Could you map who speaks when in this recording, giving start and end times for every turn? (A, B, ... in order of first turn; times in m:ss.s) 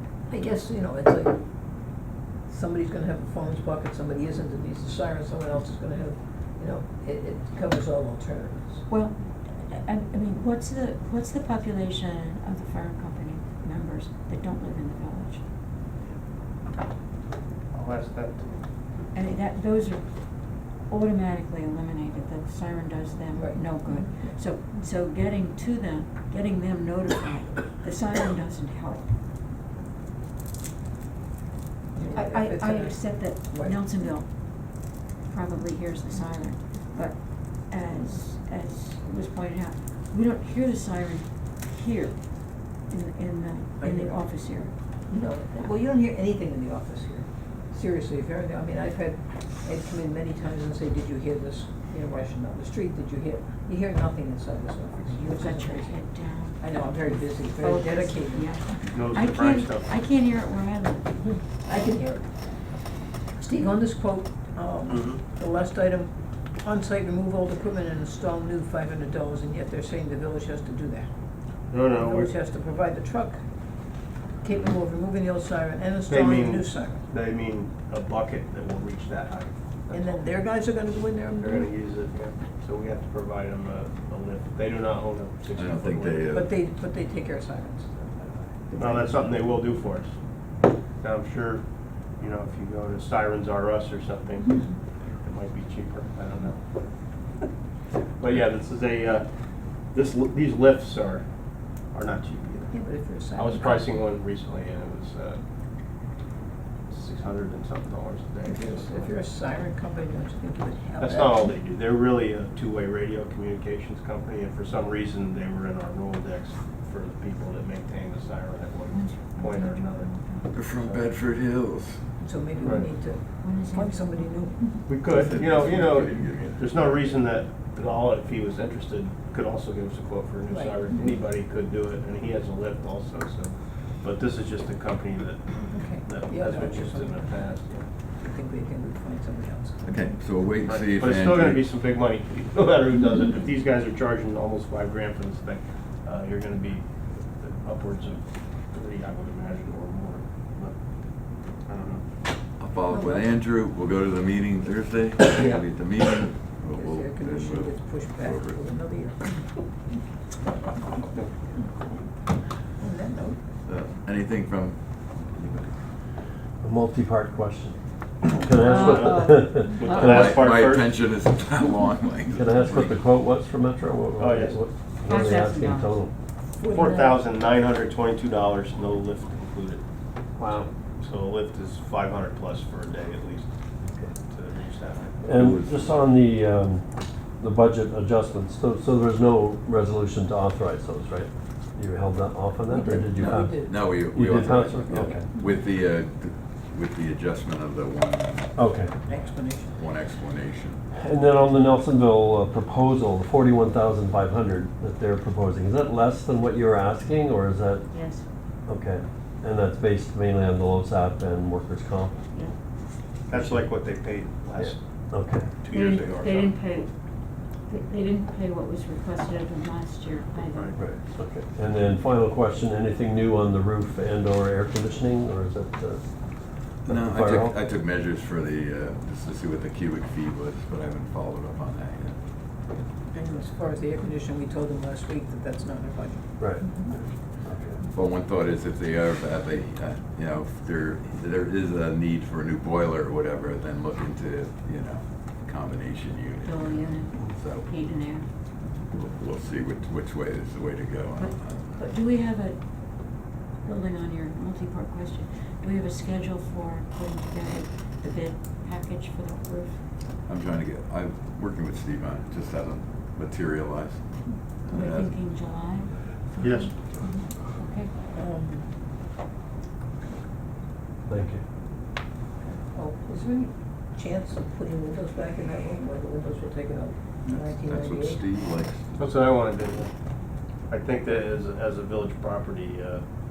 0:00.2-0:08.8 A
0:08.9-0:15.4 B
0:17.7-0:18.6 C
0:19.1-0:29.1 B
0:23.3-0:24.4 A
0:31.9-0:34.0 A
0:32.1-0:44.7 B
0:43.8-0:44.3 A
0:45.1-0:56.0 A
0:55.1-0:56.7 B
0:56.6-0:58.6 A
0:57.4-1:01.1 B
0:58.8-0:59.9 C
1:01.2-1:02.2 A
1:03.4-1:11.1 A
1:04.9-1:05.2 C
1:11.7-1:12.3 C
1:11.9-1:13.4 A
1:14.4-1:17.0 A
1:16.1-1:20.3 C
1:19.9-1:21.7 A
1:21.4-1:26.3 C
1:25.5-1:26.5 D
1:26.3-1:29.4 A
1:28.8-1:30.1 C
1:31.0-1:31.6 C
1:32.2-1:36.6 C
1:38.2-1:39.2 C
1:39.9-1:41.2 C
1:41.9-1:45.4 C
1:42.7-1:44.0 A
1:46.9-1:49.2 C
1:48.4-1:51.5 A
1:51.0-2:00.1 C
1:58.9-2:00.5 B
2:00.5-2:02.0 D
2:00.7-2:01.1 C
2:02.2-2:04.8 A
2:02.6-2:02.9 C
2:03.4-2:04.9 B
2:04.8-2:17.7 C
2:05.0-2:07.1 D
2:10.5-2:10.8 A
2:15.7-2:20.0 A
2:19.8-2:21.7 D
2:20.6-2:30.7 C
2:31.6-2:32.0 C
2:32.6-2:38.7 D
2:32.9-2:33.2 A
2:36.7-2:39.2 A
2:42.8-2:43.4 A
2:43.6-2:45.7 D
2:46.6-2:50.2 E
2:48.6-2:50.9 C
2:48.7-2:50.2 B
2:50.0-2:53.0 D
2:52.3-2:56.1 E
2:54.2-2:54.6 C
2:55.0-2:56.0 B
2:56.6-2:57.2 A
2:56.7-2:59.8 C
3:00.4-3:00.7 E
3:00.5-3:03.5 C
3:03.8-3:04.1 E
3:04.3-3:05.2 C
3:05.2-3:06.8 E
3:05.3-3:06.0 D
3:07.4-3:15.3 E
3:12.7-3:13.8 A
3:13.5-3:18.5 D
3:18.6-3:18.9 E
3:19.0-3:19.8 A
3:19.7-3:20.8 D
3:21.0-3:27.9 E
3:27.9-3:28.2 B
3:28.6-3:32.2 E
3:33.3-3:34.8 C
3:33.3-3:33.6 E
3:34.6-3:35.5 E
3:35.6-3:36.6 C
3:35.7-3:36.9 B
3:37.6-3:40.8 B
3:40.5-3:40.8 C
3:40.8-3:46.0 E
3:46.8-3:47.6 E
3:46.8-3:52.2 D
3:53.1-3:56.2 A
3:56.4-3:57.8 E
3:57.9-4:07.7 D
4:06.4-4:08.2 B
4:08.9-4:11.7 D
4:11.2-4:19.8 B
4:20.3-4:24.0 D
4:24.6-4:25.2 D
4:24.7-4:26.7 B
4:26.4-4:26.7 C
4:27.5-4:27.9 B
4:28.1-4:28.6 A
4:31.1-4:31.4 E
4:32.4-4:38.2 A
4:37.2-4:39.0 D
4:39.0-4:39.9 C
4:40.7-4:43.0 C